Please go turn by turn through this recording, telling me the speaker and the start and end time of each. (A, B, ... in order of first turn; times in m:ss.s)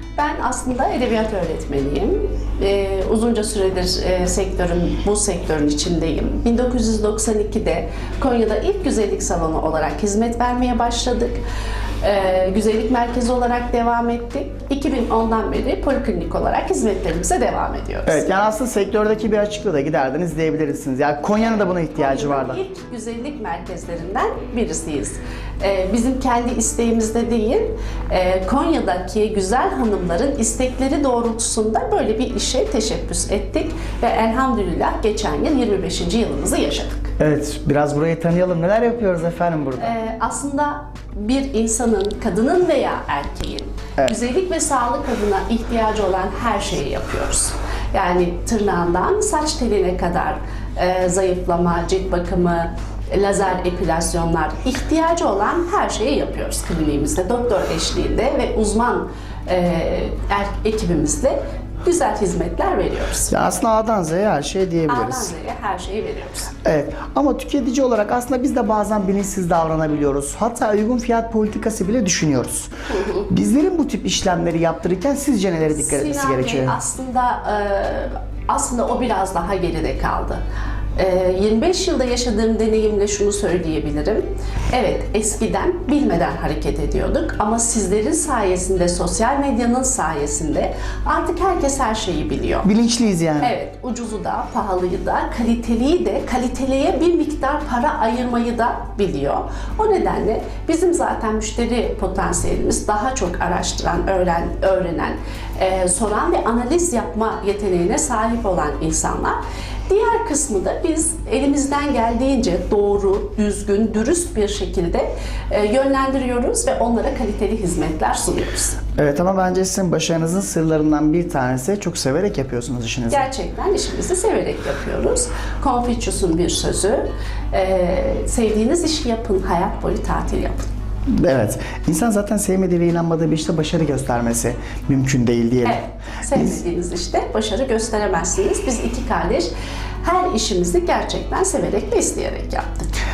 0:00.2-0:11.4 A
0:12.0-0:18.2 A
0:18.1-0:22.6 B
0:22.0-0:37.1 A
0:37.2-0:40.0 B
0:39.8-1:03.3 A
1:03.3-1:05.3 B
1:04.9-1:06.5 A
1:06.6-1:12.7 B
1:12.9-1:13.3 A
1:13.3-1:16.8 B
1:15.7-1:20.4 A
1:21.0-1:32.7 A
1:32.6-1:33.6 B
1:33.4-1:58.8 A
1:59.0-2:03.3 B
2:03.1-2:10.7 A
2:11.1-2:15.8 B
2:15.6-2:19.5 A
2:20.0-2:22.9 A